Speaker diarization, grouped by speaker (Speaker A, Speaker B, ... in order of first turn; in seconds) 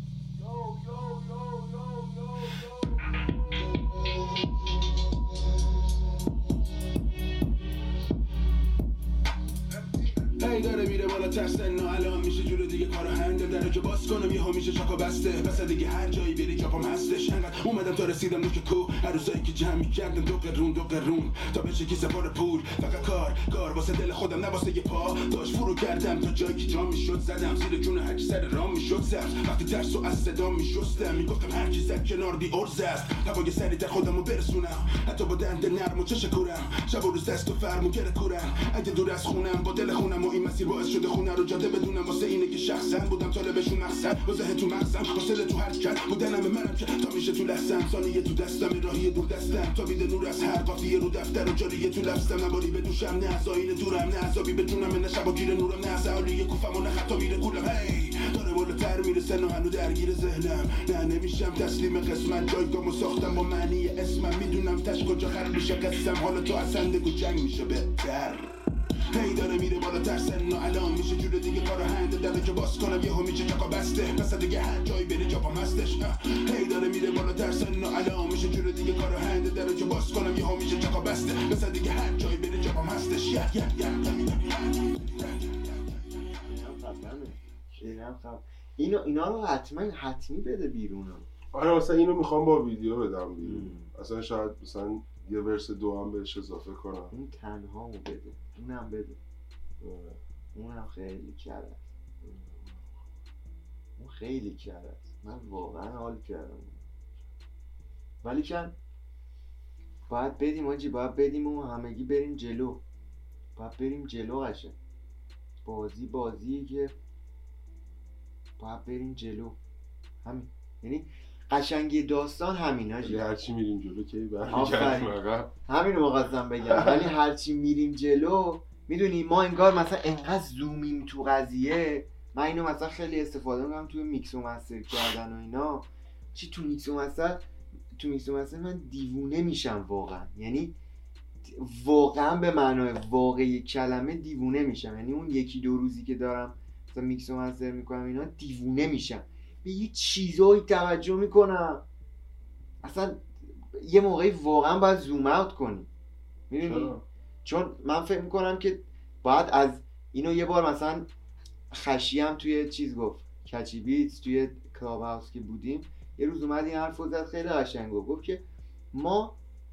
Speaker A: 0.4-3.0, 86.4-91.3, 93.4-93.9, 97.1-99.2, 100.5-101.9, 104.0-106.8, 108.2-108.7, 110.1-112.8, 113.5-114.7, 115.6-116.9, 118.6-119.6, 120.2-123.2, 124.5-137.4, 137.9-140.7, 141.4-151.8, 152.8-155.9, 156.5-161.1, 161.7-169.4
Speaker B: 10.2-68.5, 69.1-86.0
Speaker C: 91.5-97.1, 99.8-100.2, 102.2-102.9, 123.0-125.5, 126.7-127.1, 156.6-157.0